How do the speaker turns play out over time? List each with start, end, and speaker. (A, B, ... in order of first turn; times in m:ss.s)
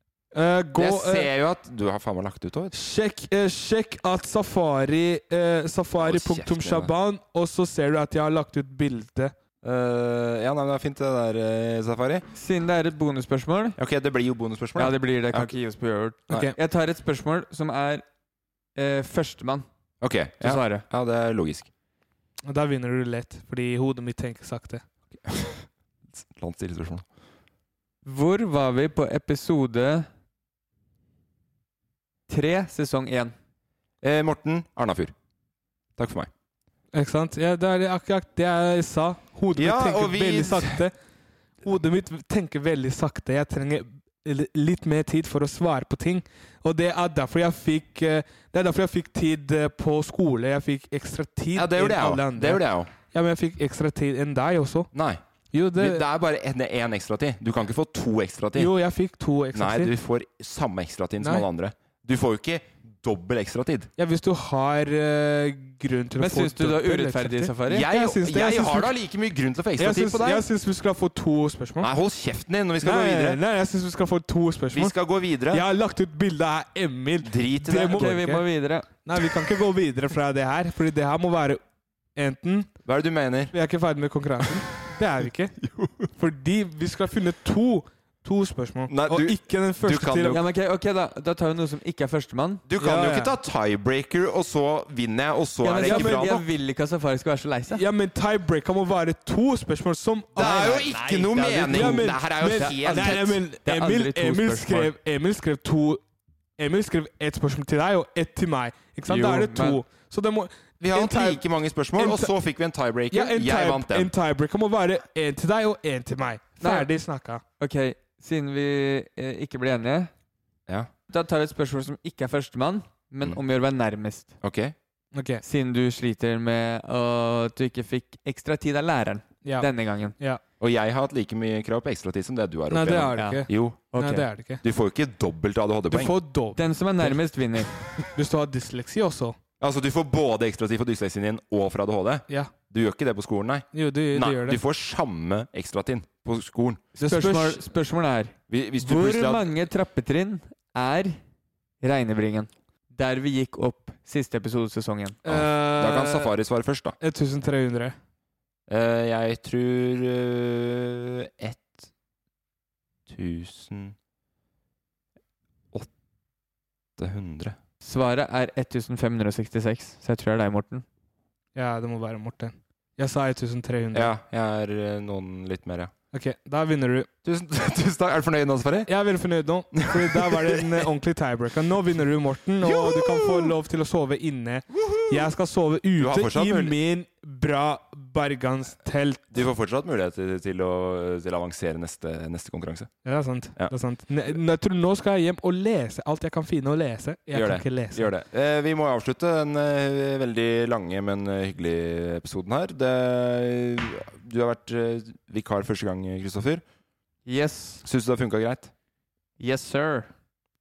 0:00.3-0:01.3 A
0:00.8-0:02.7 B
0:02.7-0:09.3 A
0:06.0-0:06.9 B
0:09.6-0:12.3 B
0:12.3-0:13.8 C
0:13.8-0:15.6 B
0:14.8-0:18.0 C
0:16.3-0:16.6 A
0:18.8-0:19.7 C
0:20.0-0:21.7 B
0:20.4-0:20.8 C
0:22.4-0:24.8 A
0:25.2-0:27.1 B
0:28.0-0:30.1 C
0:32.3-0:33.4 C
0:34.0-0:35.1 B
0:36.0-0:36.3 B
0:36.9-0:41.0 A
0:39.6-0:40.8 B
0:41.6-0:54.9 A
0:51.6-0:52.9 B
0:54.9-0:55.2 B
0:55.5-0:56.0 A
0:55.8-0:58.7 B
0:58.6-0:59.9 A
0:59.5-1:03.9 B
1:01.2-1:01.5 A
1:04.0-1:08.9 A
1:06.2-1:07.9 C
1:07.7-1:10.4 B
1:09.8-1:11.9 A
1:11.8-1:13.4 B
1:12.8-1:15.0 A
1:14.7-1:15.6 B
1:15.5-1:18.4 A
1:17.2-1:18.1 B
1:17.7-1:18.9 C
1:19.0-1:21.6 A
1:22.2-1:22.7 A
1:22.8-1:23.5 B
1:23.5-1:25.6 A
1:25.6-1:26.1 B
1:26.2-1:30.4 A
1:28.9-1:30.4 B
1:30.3-1:32.6 C
1:32.7-1:36.4 B
1:32.8-1:33.3 A
1:35.6-1:37.8 C
1:35.8-1:36.3 A
1:37.7-1:41.0 A
1:40.4-1:43.4 B
1:40.4-1:44.9 C
1:41.6-1:46.0 A
1:46.6-1:51.4 A
1:49.1-1:49.8 C
1:50.8-1:54.1 B
1:52.0-1:52.3 A
1:53.1-1:57.4 A
1:56.6-1:56.9 C
1:57.6-2:00.1 C
2:01.1-2:04.3 C
2:04.4-2:04.8 B
2:05.2-2:05.4 A
2:05.4-2:10.2 C
2:09.4-2:10.4 A
2:10.6-2:13.8 B
2:12.7-2:14.6 A
2:13.2-2:14.3 C
2:14.6-2:16.2 B
2:15.9-2:17.2 A
2:16.6-2:17.8 C
2:18.1-2:19.4 A
2:19.6-2:26.8 B
2:23.7-2:24.6 A
2:27.0-2:27.6 A
2:27.0-2:31.2 C
2:28.5-2:29.5 B
2:31.8-2:35.2 C
2:35.2-2:36.3 A
2:35.3-2:37.0 B
2:37.0-2:38.0 A
2:38.7-2:41.9 B
2:43.1-2:44.0 B
2:47.0-2:47.6 B
2:47.8-2:50.8 C
2:51.6-2:54.1 A
2:53.9-2:55.9 B
2:56.1-2:57.1 A
2:57.2-2:58.9 B
2:58.9-3:09.4 A
2:59.8-3:00.6 B
3:02.6-3:03.5 B
3:04.7-3:05.3 B
3:06.0-3:06.8 B
3:09.3-3:12.9 B
3:13.0-3:18.1 A
3:17.3-3:26.6 B
3:27.3-3:27.8 C
3:27.8-3:28.7 B
3:29.4-3:30.1 C